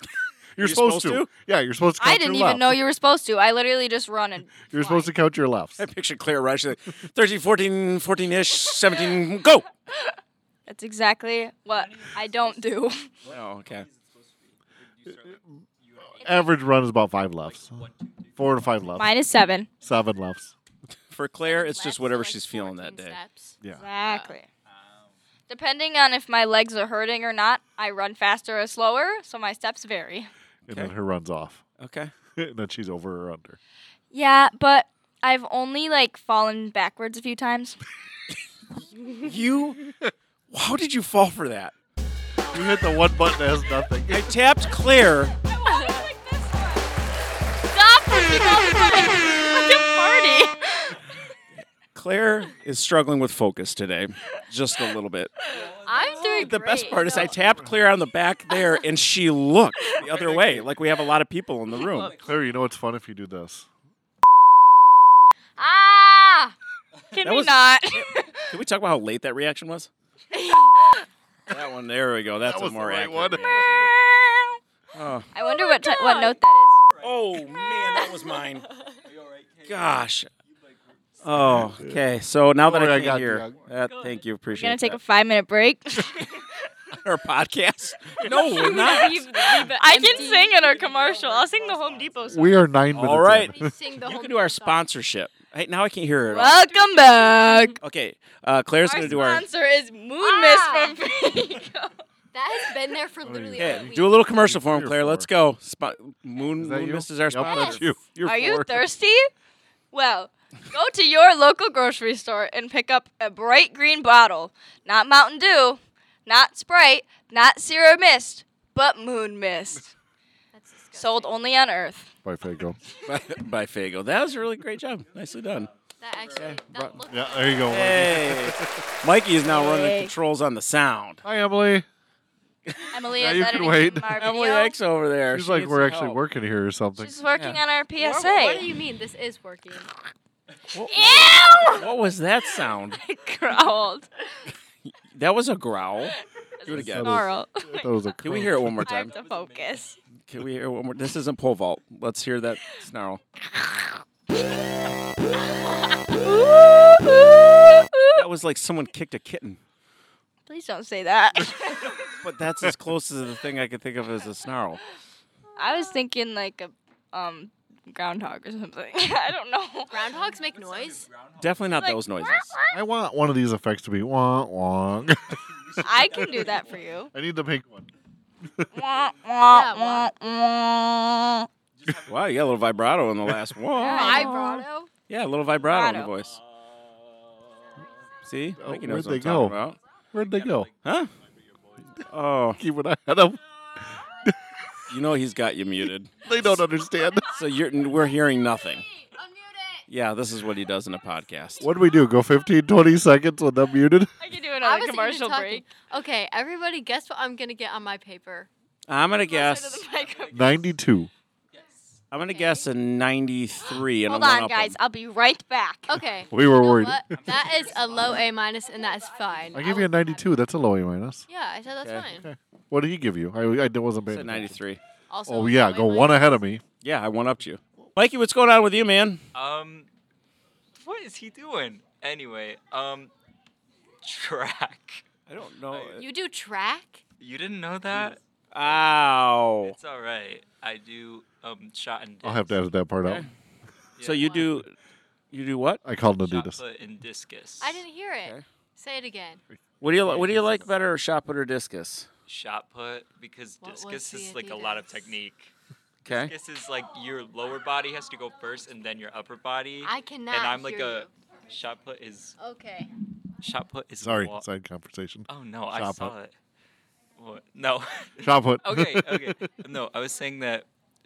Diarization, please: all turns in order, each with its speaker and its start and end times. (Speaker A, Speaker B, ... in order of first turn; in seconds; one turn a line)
Speaker A: 0.6-2.8
Speaker B: 0.6-1.3
Speaker C: 2.0-4.8
Speaker A: 4.7-5.9
Speaker B: 5.8-9.7
Speaker C: 10.7-13.1
Speaker B: 13.2-13.9
Speaker D: 13.3-15.3
Speaker D: 15.9-16.5
Speaker A: 16.2-17.8
Speaker C: 16.2-16.5
Speaker D: 17.4-18.8
Speaker A: 18.4-19.1
Speaker C: 18.9-19.7
Speaker A: 19.8-20.5
Speaker B: 21.1-23.2
Speaker E: 21.4-24.4
Speaker C: 23.7-24.5
Speaker C: 25.5-30.3
Speaker B: 30.7-30.9
Speaker A: 30.7-31.6
Speaker B: 31.8-32.1
Speaker A: 32.4-33.6
Speaker C: 34.1-37.8
Speaker E: 39.0-39.3
Speaker B: 39.2-39.8
Speaker B: 40.5-41.8
Speaker A: 42.5-44.4
Speaker E: 42.5-43.0
Speaker B: 44.1-45.4
Speaker C: 45.4-47.0
Speaker E: 45.6-46.1
Speaker E: 47.6-49.8
Speaker C: 48.6-51.0
Speaker B: 51.9-55.4
Speaker D: 55.5-56.2
Speaker E: 55.6-57.5
Speaker C: 56.0-56.5
Speaker B: 56.1-62.1
Speaker A: 57.2-57.7
Speaker C: 58.5-58.8
Speaker A: 60.0-60.7
Speaker C: 61.8-62.1
Speaker A: 62.0-63.7
Speaker E: 65.6-66.6
Speaker C: 67.1-68.5
Speaker B: 67.2-69.9
Speaker E: 70.3-70.7
Speaker B: 71.5-73.9
Speaker A: 72.4-73.8
Speaker C: 73.8-74.5
Speaker B: 74.9-75.3
Speaker C: 75.3-76.8
Speaker E: 75.9-76.3
Speaker D: 76.9-77.1
Speaker B: 77.0-78.7
Speaker E: 78.0-79.0
Speaker D: 79.1-79.7
Speaker B: 79.6-80.3
Speaker B: 81.2-85.0
Speaker A: 81.4-82.0
Speaker A: 82.6-83.7
Speaker E: 83.9-84.1
Speaker C: 84.5-86.4
Speaker B: 87.0-89.8
Speaker E: 88.2-90.6
Speaker C: 88.7-92.5
Speaker D: 90.6-92.2
Speaker A: 92.3-93.7
Speaker B: 92.9-96.6
Speaker E: 93.0-95.0
Speaker E: 96.2-97.8
Speaker C: 96.3-97.8
Speaker B: 97.8-99.5
Speaker C: 98.8-102.0
Speaker E: 100.2-101.0
Speaker E: 102.3-104.3
Speaker A: 103.2-105.3
Speaker B: 103.6-108.1
Speaker A: 106.5-108.8
Speaker C: 107.5-109.3
Speaker C: 109.9-119.9
Speaker E: 120.5-121.4
Speaker C: 121.0-122.1
Speaker A: 122.2-122.8
Speaker B: 123.0-125.7
Speaker E: 126.0-127.8
Speaker D: 126.4-126.7
Speaker B: 126.4-126.9
Speaker A: 126.7-128.8
Speaker B: 127.7-131.2
Speaker C: 129.4-130.1
Speaker A: 131.2-131.9
Speaker C: 132.9-134.8
Speaker A: 133.2-134.2
Speaker B: 134.2-136.2
Speaker A: 135.2-137.1
Speaker C: 137.0-138.7
Speaker B: 137.3-137.6
Speaker E: 138.0-139.9
Speaker B: 140.7-143.0
Speaker C: 140.8-141.9
Speaker C: 142.9-144.1
Speaker B: 144.9-146.1
Speaker C: 146.1-150.0
Speaker B: 146.6-147.1
Speaker A: 146.7-148.9
Speaker B: 148.2-149.2
Speaker D: 149.2-149.9
Speaker B: 150.3-153.2
Speaker C: 153.6-153.9
Speaker C: 156.1-158.2
Speaker B: 158.1-159.6
Speaker C: 160.5-162.2
Speaker B: 162.2-164.8
Speaker C: 165.6-170.0
Speaker E: 169.9-171.1
Speaker D: 171.0-171.8
Speaker B: 171.4-172.5
Speaker C: 171.7-172.7
Speaker A: 172.7-177.9
Speaker C: 175.8-177.1
Speaker C: 178.7-181.5
Speaker E: 179.4-180.1
Speaker D: 181.8-182.6
Speaker B: 182.1-184.4
Speaker C: 183.8-184.6
Speaker E: 183.8-184.9
Speaker B: 185.1-186.4
Speaker C: 185.7-186.1
Speaker B: 188.2-189.8
Speaker A: 188.6-190.7
Speaker D: 190.2-190.8
Speaker B: 190.8-191.1
Speaker B: 192.1-192.6
Speaker A: 192.6-194.6
Speaker B: 194.9-196.1
Speaker A: 196.2-197.4
Speaker B: 197.3-198.9
Speaker B: 199.9-201.7
Speaker A: 201.6-204.1
Speaker C: 204.2-205.6
Speaker E: 204.6-208.5
Speaker B: 208.9-209.9
Speaker C: 209.2-210.6
Speaker A: 210.3-211.1
Speaker B: 212.1-214.8
Speaker C: 212.4-212.7
Speaker C: 214.1-215.9
Speaker E: 215.9-220.0
Speaker A: 216.3-217.5
Speaker D: 217.1-218.2
Speaker A: 219.5-221.2
Speaker E: 221.3-222.3
Speaker A: 222.1-224.6
Speaker B: 224.1-224.8
Speaker E: 225.1-226.4
Speaker A: 225.2-226.6
Speaker B: 226.8-229.2
Speaker D: 229.3-229.9
Speaker D: 230.8-233.1
Speaker D: 234.0-235.1
Speaker B: 235.3-236.1
Speaker D: 235.7-236.0
Speaker E: 236.0-237.0
Speaker D: 237.2-238.8
Speaker B: 237.9-239.8
Speaker D: 239.6-242.6
Speaker A: 242.2-243.3
Speaker B: 243.0-243.3
Speaker D: 244.0-244.3
Speaker B: 244.0-244.7
Speaker B: 245.3-245.8
Speaker A: 245.8-246.6
Speaker D: 246.1-247.8
Speaker E: 247.6-249.4
Speaker A: 249.5-250.7
Speaker B: 249.8-252.1
Speaker D: 252.3-255.5
Speaker E: 253.6-255.2
Speaker B: 256.1-256.3
Speaker D: 256.1-262.4
Speaker E: 259.8-261.1
Speaker E: 262.4-262.9
Speaker D: 263.4-264.4
Speaker A: 264.0-266.1
Speaker D: 265.3-266.3
Speaker D: 267.2-270.7
Speaker A: 268.2-269.5